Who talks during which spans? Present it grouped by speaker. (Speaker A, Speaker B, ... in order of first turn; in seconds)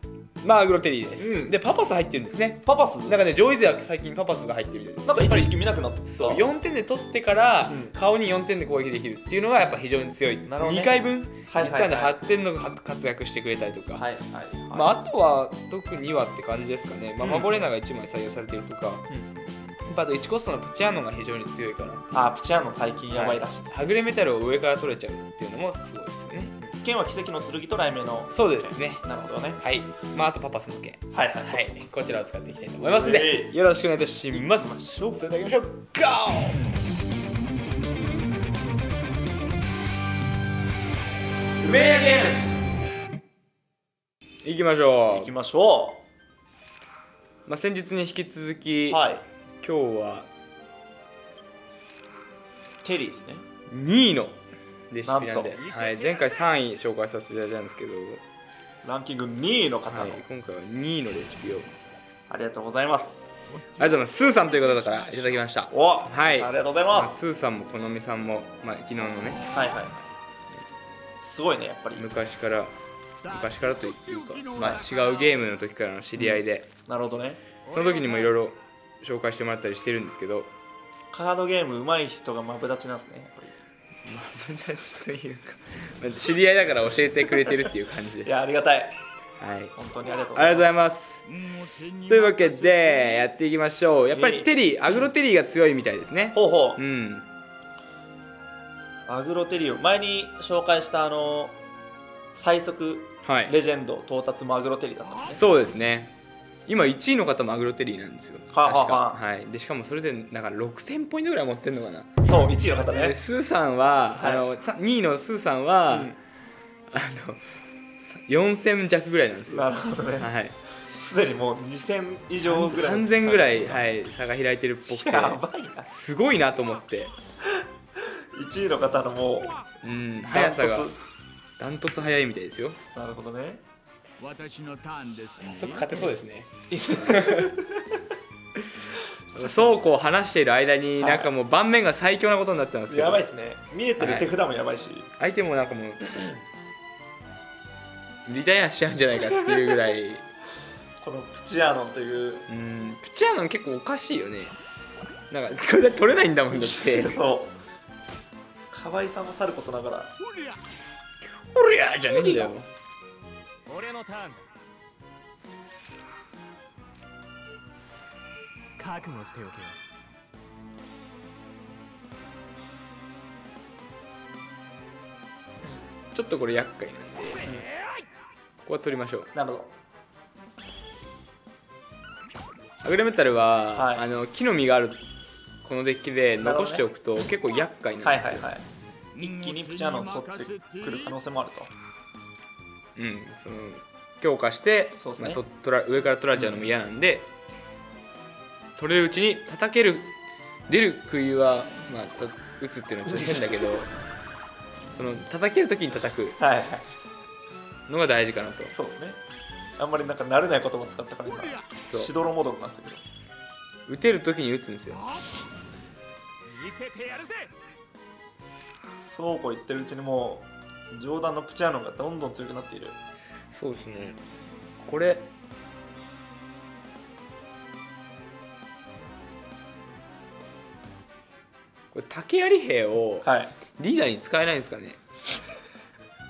Speaker A: 0.4-5.6, 6.1-14.1, 14.7-19.1, 19.9-22.1, 23.1-26.6, 28.3-29.1, 29.6-36.6, 44.4-45.3, 47.5-49.0, 49.6-50.3, 53.7-58.2, 59.9-61.7, 63.8-69.4, 72.0-76.7, 77.7-80.5, 84.1-88.3, 89.4-89.8, 90.3-91.2, 92.0-97.3, 103.2-103.5, 105.3-106.1, 106.7-112.1, 112.9-116.2, 116.9-120.6, 122.4-127.1, 129.8-130.9, 131.6-132.8, 135.4-137.5, 138.6-143.2, 144.0-144.3, 145.2-146.3, 148.3-150.2, 152.5-154.6, 155.3-157.2, 161.3-162.7, 176.1-177.5, 178.7-179.3, 182.8-185.0, 185.6-188.5, 193.0-197.3, 198.8-200.1, 200.7-203.9, 204.9-206.4, 207.9-208.7, 213.9-215.1, 223.5-224.2, 224.8-225.3, 231.9-235.0
Speaker B: 1.2-1.5, 2.6-3.2, 5.1-6.5, 7.7-8.0, 10.5-12.2, 14.0-14.9, 17.2-17.5, 19.1-19.5, 22.1-23.9, 26.6-29.6, 31.1-31.9, 32.8-33.6, 34.3-35.2, 41.6-42.6, 45.1-46.0, 48.9-49.3, 52.8-53.5, 55.1-55.6, 58.8-60.2, 62.3-63.2, 65.7-67.2, 69.5-70.1, 71.2-72.1, 76.2-77.4, 81.1-83.6, 88.2-88.9, 89.8-90.7, 94.1-95.0, 96.3-96.8, 99.1-101.6, 102.3-105.4, 108.5-109.2, 112.2-113.2, 114.2-114.5, 115.9-116.2, 119.5-120.3, 120.9-123.8, 124.9-125.9, 127.5-129.6, 130.3-131.0, 132.9-133.6, 136.7-138.0, 141.0-141.3, 142.9-145.1, 151.0-152.4, 156.5-157.6, 158.7-160.1, 162.1-162.5, 179.3-179.7, 183.7-184.1, 186.4-186.8, 188.0-188.7, 189.2-191.7, 195.0-195.4, 206.4-206.9, 208.7-209.2, 209.8-213.0, 219.0-223.0, 233.2-233.5
Speaker C: 91.6-92.1, 134.2-135.6, 163.7-164.5, 168.8-169.8, 189.2-190.8, 216.6-217.4